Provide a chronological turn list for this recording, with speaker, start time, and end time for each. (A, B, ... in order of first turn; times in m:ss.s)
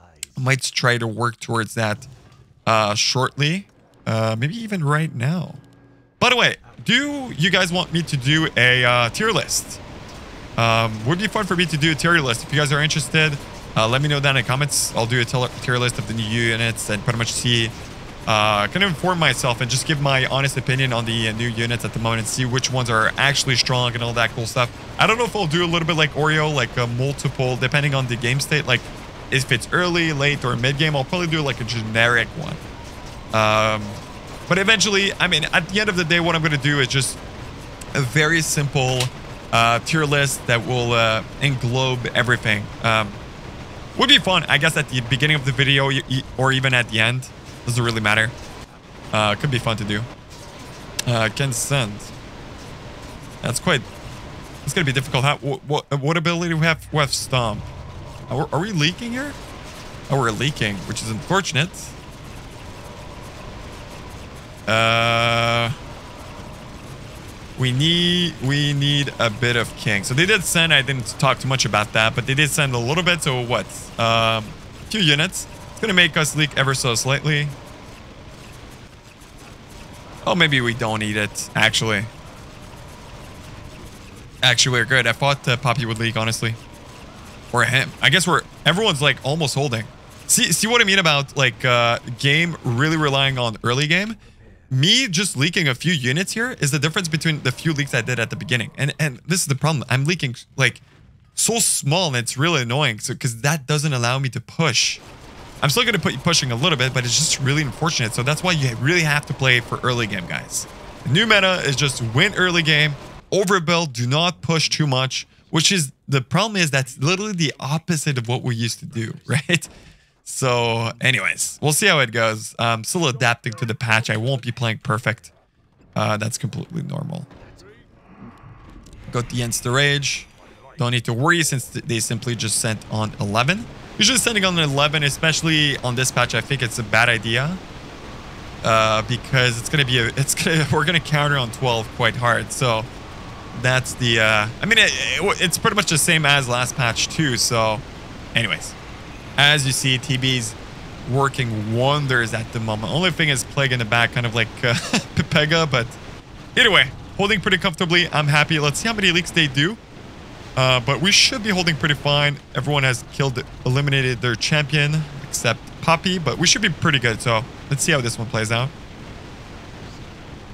0:00.4-0:02.1 A
0:02.6-0:05.6 A
0:06.2-0:09.8 A
0:10.6-0:17.7 A
0:18.2-0:32.6 A
0:33.3-0:37.2 A
0:37.9-0:43.2 A
0:44.0-0:48.3 A
0:49.1-0:50.1 A
0:51.0-0:52.1 A
0:53.4-0:53.9 A
0:54.6-0:57.7 A
0:58.3-0:59.4 A
1:00.1-1:01.9 A
1:04.7-1:05.8 A
1:07.6-1:17.5 A
1:20.2-1:22.1 A
1:24.4-1:26.6 A
1:27.5-1:34.2 A
1:34.7-1:40.8 A
1:41.4-1:45.0 A
1:45.6-1:59.7 A
2:00.2-2:05.3 A
2:06.0-2:07.3 A
2:09.1-2:17.6 A
2:18.6-2:22.9 A
2:23.5-2:27.8 A
2:28.3-2:28.8 A
2:29.4-2:36.0 A
2:36.6-2:39.8 A
2:40.6-2:48.7 A